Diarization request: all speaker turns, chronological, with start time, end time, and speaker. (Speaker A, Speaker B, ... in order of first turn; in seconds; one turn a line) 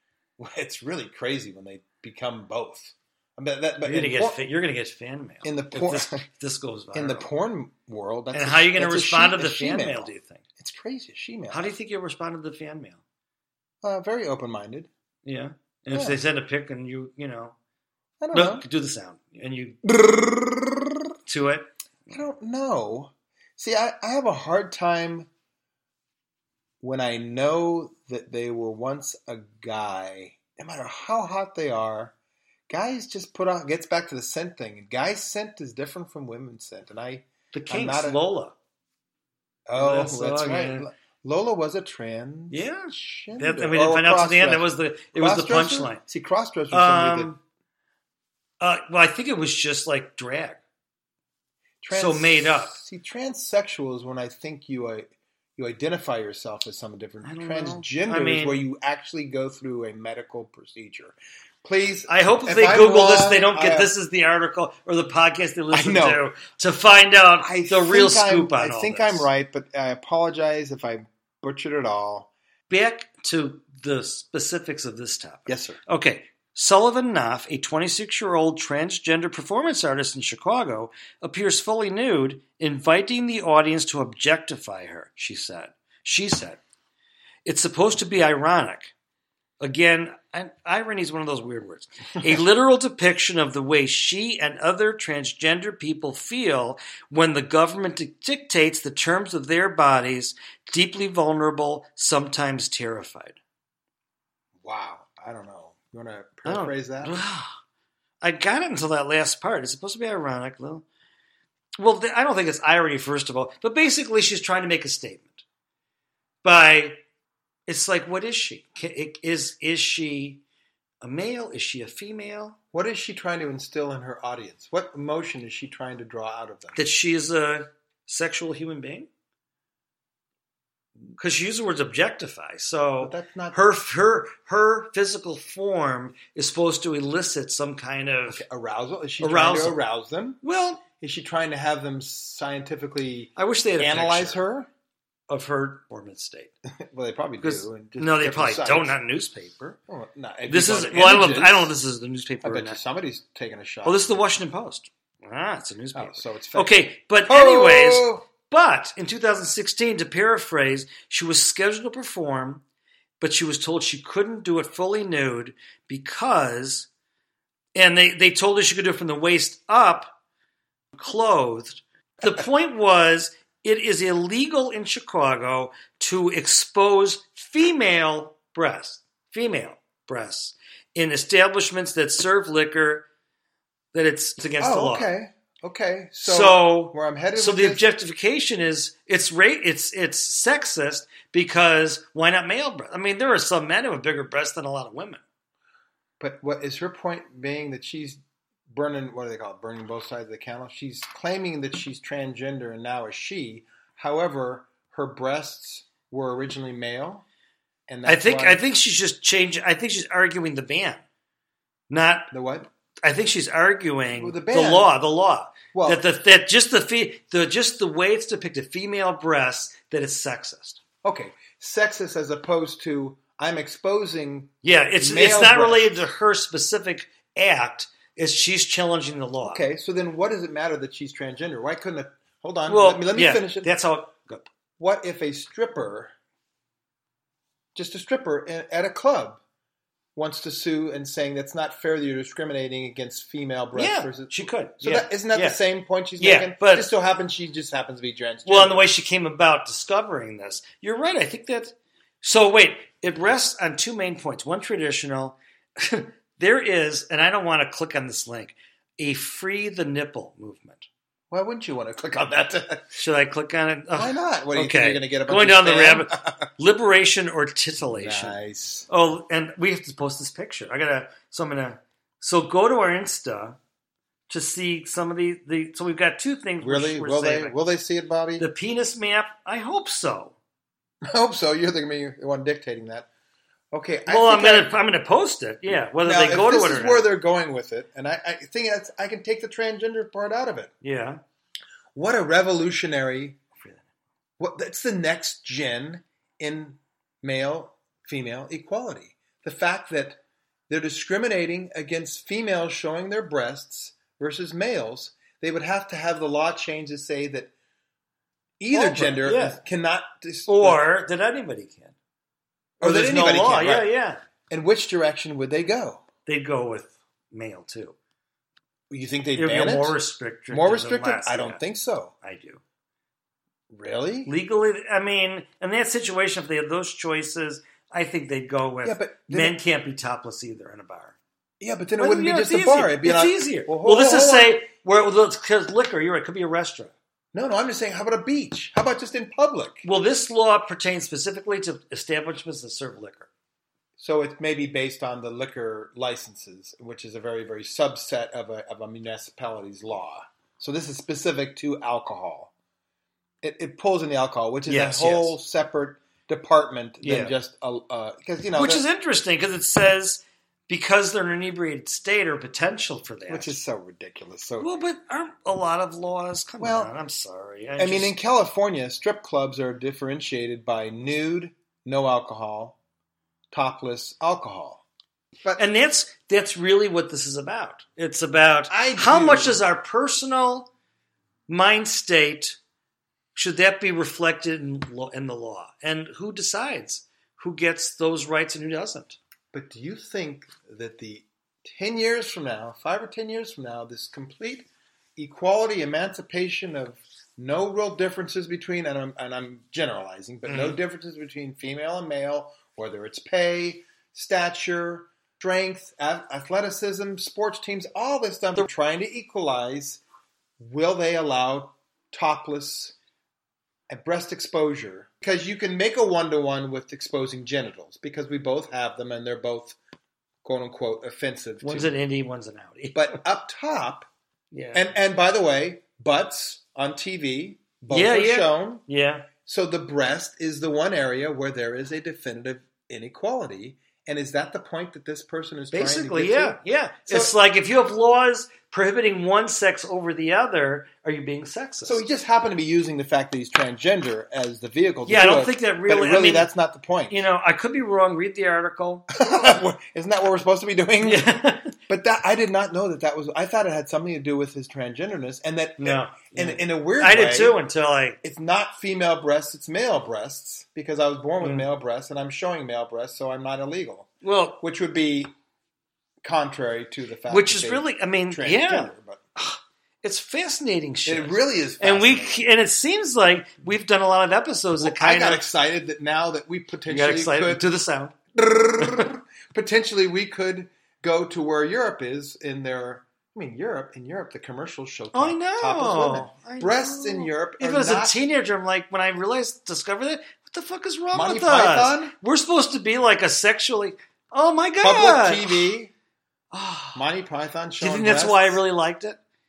Speaker A: 0.4-4.5
Speaker B: 3.8-7.3
Speaker A: 5.4-6.3
Speaker A: 6.9-11.7
Speaker B: 8.3-10.4
Speaker B: 11.5-13.0
Speaker A: 13.8-14.9
Speaker B: 15.2-17.6
Speaker A: 15.9-16.2
Speaker A: 18.2-18.6
Speaker B: 18.3-19.8
Speaker A: 19.8-21.0
Speaker B: 21.2-22.2
Speaker A: 22.1-25.3
Speaker A: 26.8-32.1
Speaker A: 32.7-38.2
Speaker B: 37.5-38.5
Speaker A: 39.7-47.3
Speaker B: 39.8-40.9
Speaker B: 42.5-46.0
Speaker B: 46.7-47.4
Speaker B: 48.6-50.6
Speaker A: 51.8-63.9
Speaker B: 51.9-52.8
Speaker B: 57.2-58.6
Speaker B: 62.1-69.3
Speaker A: 65.7-66.2
Speaker A: 67.4-72.3
Speaker B: 72.7-86.6
Speaker A: 75.5-75.8
Speaker B: 87.4-88.9
Speaker B: 89.6-103.4
Speaker A: 104.6-107.2
Speaker B: 106.5-107.6
Speaker B: 108.2-110.8
Speaker B: 111.8-115.4
Speaker B: 116.4-117.0
Speaker B: 117.7-120.4
Speaker B: 121.0-122.6
Speaker A: 122.7-126.8
Speaker B: 126.7-129.1
Speaker B: 131.2-138.4
Speaker A: 133.0-133.7
Speaker A: 138.3-140.4
Speaker B: 139.2-139.8
Speaker B: 140.4-140.8
Speaker A: 141.0-144.7
Speaker B: 143.3-144.4
Speaker B: 145.3-146.5
Speaker A: 146.8-149.0
Speaker B: 147.4-149.7
Speaker A: 149.7-151.7
Speaker B: 150.5-152.8
Speaker A: 152.4-154.2
Speaker B: 153.8-162.6
Speaker A: 155.9-158.2
Speaker B: 163.2-166.9
Speaker B: 167.7-170.1
Speaker B: 170.9-183.1
Speaker B: 183.9-185.1
Speaker A: 184.6-187.9
Speaker B: 186.2-195.2
Speaker A: 196.2-207.2
Speaker A: 207.9-208.6
Speaker B: 208.0-211.0
Speaker B: 211.9-212.3
Speaker A: 212.3-212.7
Speaker B: 213.0-220.8
Speaker A: 214.1-214.9
Speaker A: 215.7-216.0
Speaker A: 221.0-226.0
Speaker B: 224.6-229.6
Speaker A: 229.4-233.7
Speaker B: 232.7-234.5
Speaker A: 234.8-236.1
Speaker A: 237.7-239.4
Speaker A: 240.1-248.9
Speaker B: 243.7-245.6
Speaker B: 246.2-246.9
Speaker B: 248.4-260.9
Speaker A: 261.3-263.0
Speaker B: 262.9-273.6
Speaker A: 263.9-266.5
Speaker A: 267.8-268.9
Speaker B: 274.3-277.6
Speaker A: 276.6-278.5
Speaker B: 278.4-280.4
Speaker A: 281.0-283.1
Speaker A: 283.7-284.7
Speaker B: 284.1-287.1
Speaker A: 285.7-290.7
Speaker B: 290.8-291.2
Speaker A: 291.9-293.4
Speaker B: 293.6-293.9
Speaker A: 294.4-307.5
Speaker A: 308.6-310.9
Speaker B: 308.7-309.6
Speaker B: 310.4-311.9
Speaker A: 312.8-313.9
Speaker B: 312.8-314.2
Speaker A: 314.5-316.0
Speaker B: 316.2-317.9
Speaker A: 318.9-322.1
Speaker B: 319.3-321.6
Speaker B: 322.2-322.6
Speaker A: 323.7-324.3
Speaker B: 324.2-331.2
Speaker A: 328.8-329.6
Speaker A: 331.6-334.6
Speaker B: 332.0-336.9
Speaker A: 337.3-339.8
Speaker B: 339.8-343.3
Speaker A: 344.0-352.5
Speaker A: 353.4-358.9
Speaker B: 354.6-355.4
Speaker B: 357.0-357.3
Speaker B: 358.6-363.6
Speaker A: 363.3-364.7
Speaker B: 364.6-368.1
Speaker A: 366.6-366.9
Speaker A: 367.8-372.8
Speaker A: 373.5-374.8
Speaker B: 375.6-380.7
Speaker A: 378.7-379.6
Speaker B: 381.5-382.6
Speaker B: 383.3-389.2
Speaker A: 389.5-410.0
Speaker B: 400.5-400.8
Speaker A: 410.6-412.9
Speaker A: 413.9-419.8
Speaker A: 420.4-421.9
Speaker B: 421.6-423.2
Speaker A: 422.9-424.1
Speaker B: 424.5-424.9
Speaker A: 424.7-428.8
Speaker B: 427.9-429.3
Speaker A: 429.4-437.3
Speaker B: 435.7-442.0
Speaker A: 441.8-447.3
Speaker B: 445.1-446.5
Speaker B: 447.1-449.1
Speaker A: 449.1-457.6
Speaker B: 451.0-451.7
Speaker B: 455.8-458.2
Speaker A: 458.2-465.3
Speaker B: 461.4-461.7
Speaker B: 464.2-464.6
Speaker A: 466.2-469.2
Speaker B: 467.3-475.4
Speaker A: 471.1-472.5
Speaker A: 474.8-477.6
Speaker B: 476.9-478.1
Speaker A: 478.3-488.2
Speaker B: 485.1-495.7
Speaker A: 491.1-492.1
Speaker A: 494.8-495.9
Speaker B: 496.5-497.0
Speaker A: 496.9-498.6
Speaker B: 497.8-499.2